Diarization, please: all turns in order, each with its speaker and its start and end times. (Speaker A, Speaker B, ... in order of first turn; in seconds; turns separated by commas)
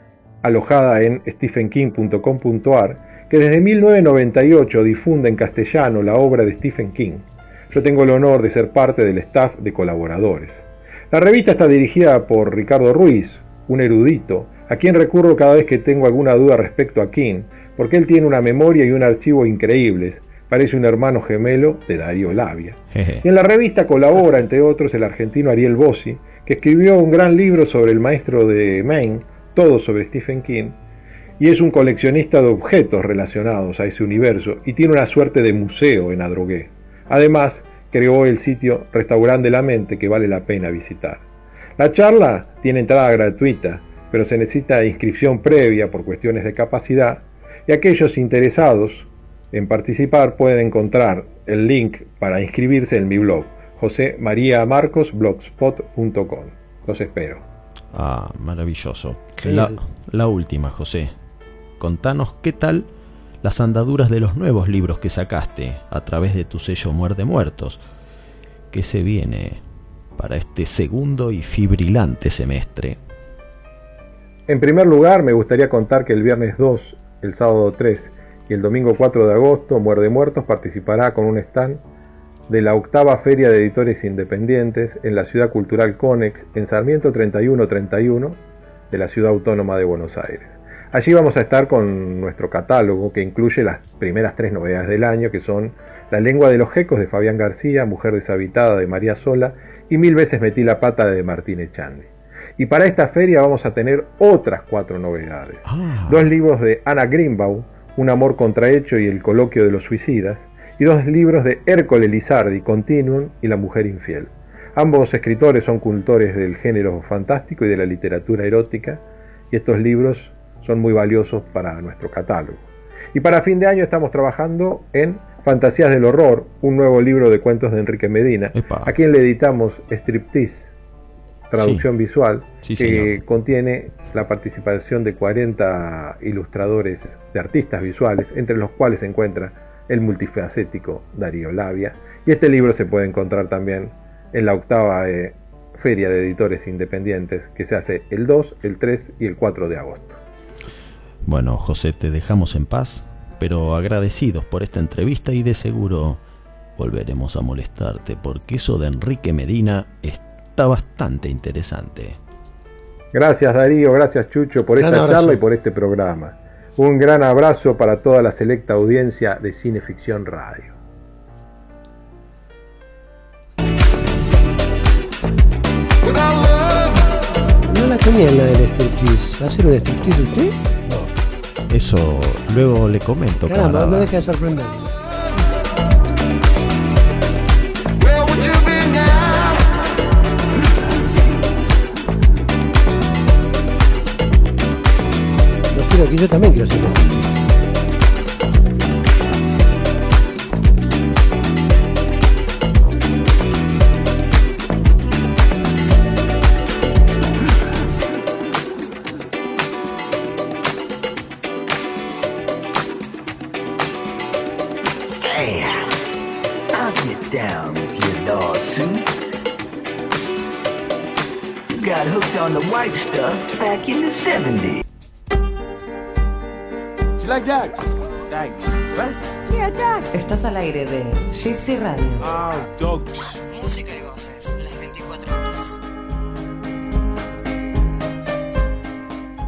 Speaker A: 0.4-30.8, Speaker B: 22.9-23.3, Speaker A: 31.4-41.2, Speaker A: 41.8-57.4, Speaker B: 57.9-61.1, Speaker C: 59.4-59.8, Speaker B: 61.8-62.9, Speaker B: 63.4-67.8, Speaker B: 68.7-69.6, Speaker B: 70.2-73.0, Speaker A: 74.5-81.8, Speaker A: 82.5-88.4, Speaker A: 88.9-130.7, Speaker B: 105.7-106.3, Speaker B: 128.5-129.0, Speaker A: 131.5-150.2, Speaker B: 131.6-131.9, Speaker B: 132.6-133.2, Speaker B: 151.2-156.2, Speaker B: 156.8-162.2, Speaker A: 163.1-170.8, Speaker C: 164.8-165.4, Speaker C: 177.7-181.1, Speaker B: 181.7-184.1, Speaker C: 183.5-184.9, Speaker C: 195.7-197.3, Speaker D: 216.8-218.9, Speaker D: 221.8-224.7, Speaker E: 229.6-232.2